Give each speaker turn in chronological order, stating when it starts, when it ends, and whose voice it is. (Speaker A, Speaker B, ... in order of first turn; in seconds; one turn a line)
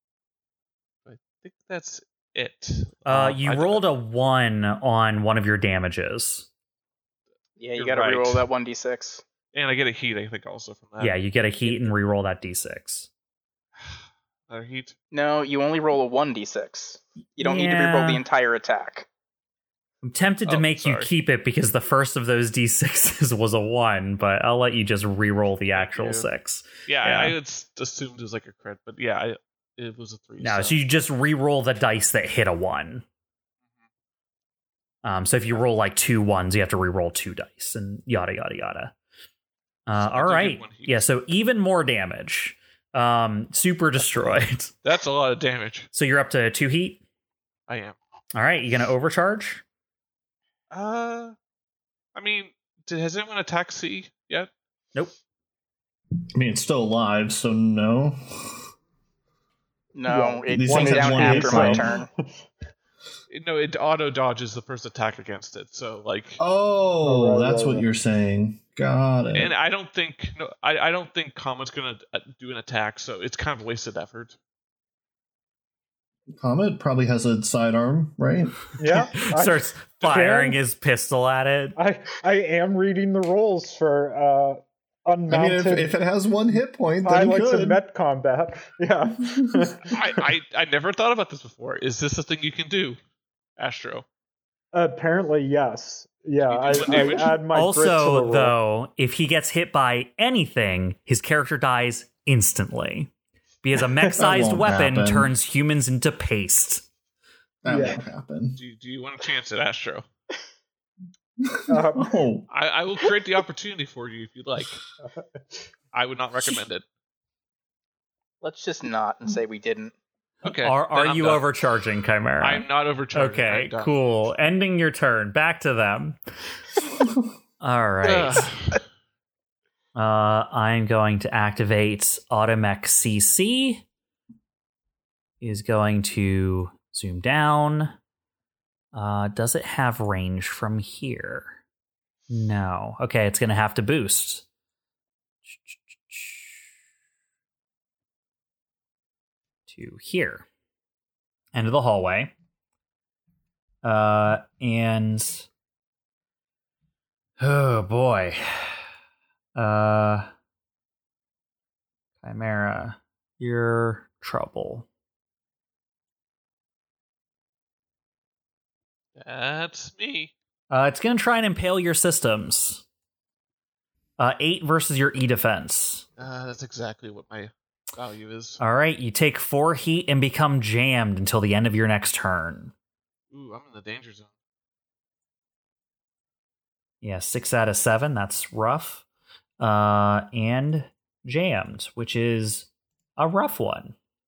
Speaker A: 1.1-3.8
Speaker B: 3.1-6.5
Speaker C: 7.6-9.2
Speaker A: 7.8-8.4
Speaker A: 9.5-11.9
Speaker B: 11.0-13.1
Speaker A: 13.8-14.9
Speaker C: 15.1-19.1
Speaker B: 17.4-18.2
Speaker B: 20.0-27.4
Speaker A: 20.5-21.1
Speaker A: 25.7-26.3
Speaker A: 26.9-30.8
Speaker B: 30.4-33.0
Speaker B: 35.0-38.9
Speaker B: 39.9-44.7
Speaker A: 40.0-41.0
Speaker A: 44.8-45.9
Speaker B: 45.9-47.0
Speaker A: 47.7-48.0
Speaker B: 48.3-49.6
Speaker A: 50.7-51.4
Speaker A: 52.1-54.5
Speaker D: 56.4-58.6
Speaker C: 60.0-62.1
Speaker E: 60.1-62.1
Speaker D: 60.5-61.9
Speaker A: 63.3-66.4
Speaker D: 66.4-69.5
Speaker E: 67.0-67.9
Speaker A: 69.3-74.4
Speaker D: 76.3-78.6
Speaker E: 78.8-80.6
Speaker B: 79.2-81.8
Speaker E: 81.8-85.9
Speaker D: 85.3-87.8
Speaker E: 87.0-90.0
Speaker D: 89.3-89.7
Speaker A: 89.9-93.0
Speaker A: 93.6-94.0
Speaker E: 94.7-98.5
Speaker A: 96.4-97.4
Speaker B: 96.8-103.1
Speaker B: 103.6-106.9
Speaker D: 104.1-105.3
Speaker D: 107.6-108.6
Speaker E: 107.7-108.0
Speaker A: 108.6-110.0
Speaker D: 111.4-112.5
Speaker E: 111.7-112.2
Speaker A: 112.5-114.8
Speaker A: 115.9-116.8
Speaker C: 118.4-119.9
Speaker A: 120.4-121.4
Speaker B: 120.5-126.2
Speaker A: 122.4-123.9
Speaker B: 127.6-128.6
Speaker A: 128.0-128.8
Speaker B: 129.9-133.8
Speaker B: 135.4-137.9
Speaker B: 138.9-141.6
Speaker B: 142.3-144.4
Speaker B: 145.4-146.7
Speaker B: 149.7-150.4
Speaker B: 151.5-152.3
Speaker B: 153.8-155.5
Speaker B: 157.4-158.8
Speaker B: 159.6-160.3
Speaker B: 162.2-164.9
Speaker A: 169.2-170.3
Speaker B: 170.7-172.8
Speaker B: 174.2-176.1
Speaker A: 176.2-178.6
Speaker B: 178.6-182.7
Speaker A: 183.3-184.3
Speaker B: 187.0-189.1
Speaker B: 189.6-193.9